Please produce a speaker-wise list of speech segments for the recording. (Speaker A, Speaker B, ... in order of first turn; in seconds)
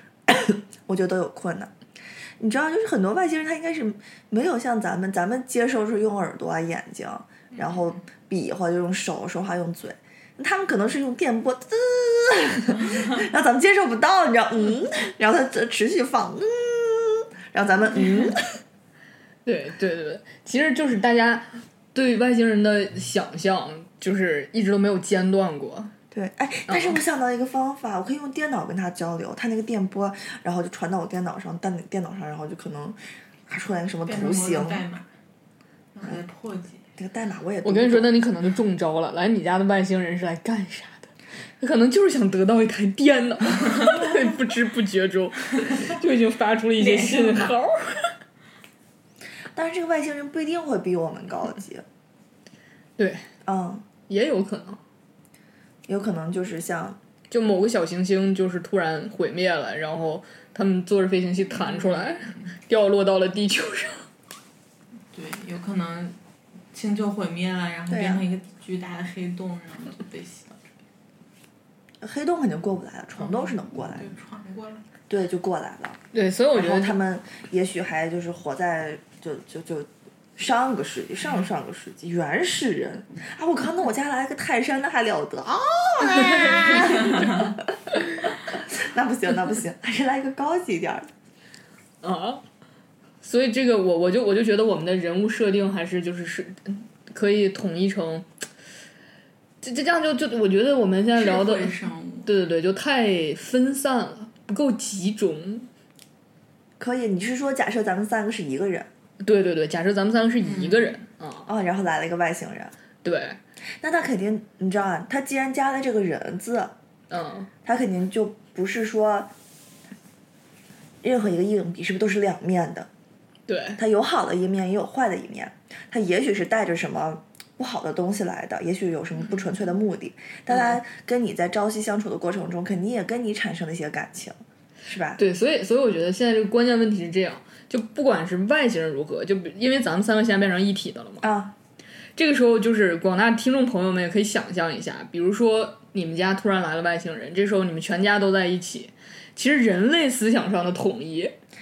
Speaker A: 0.3-1.7, 2.4-18.4, 26.1-34.8, 37.0-38.1, 49.5-51.8, 53.4-53.8, 55.9-57.0, 67.9-68.2, 72.0-74.1, 75.1-76.0, 76.5-87.6, 88.5-91.1, 106.8-108.9, 111.5-112.7, 113.8-116.7, 117.6-119.3, 121.0-122.9, 123.8-135.2, 141.2-141.5
Speaker B: 18.0-18.3, 19.4-25.9, 26.7-27.0, 37.6-41.1, 41.6-48.1, 53.0-53.2, 54.1-54.8, 57.3-64.0, 76.1-77.0, 92.0-92.4, 93.2-98.3, 99.6-101.7, 102.2-105.7, 109.2-111.5, 113.0-113.4, 117.1-117.5, 123.5-123.8, 130.5-130.8, 135.2-141.2, 142.2-151.3
Speaker C: 34.1-35.1, 35.9-36.8, 46.8-47.6, 61.6-62.5, 65.1-66.2, 66.7-70.8, 73.2-74.8, 101.1-102.3, 110.5-111.0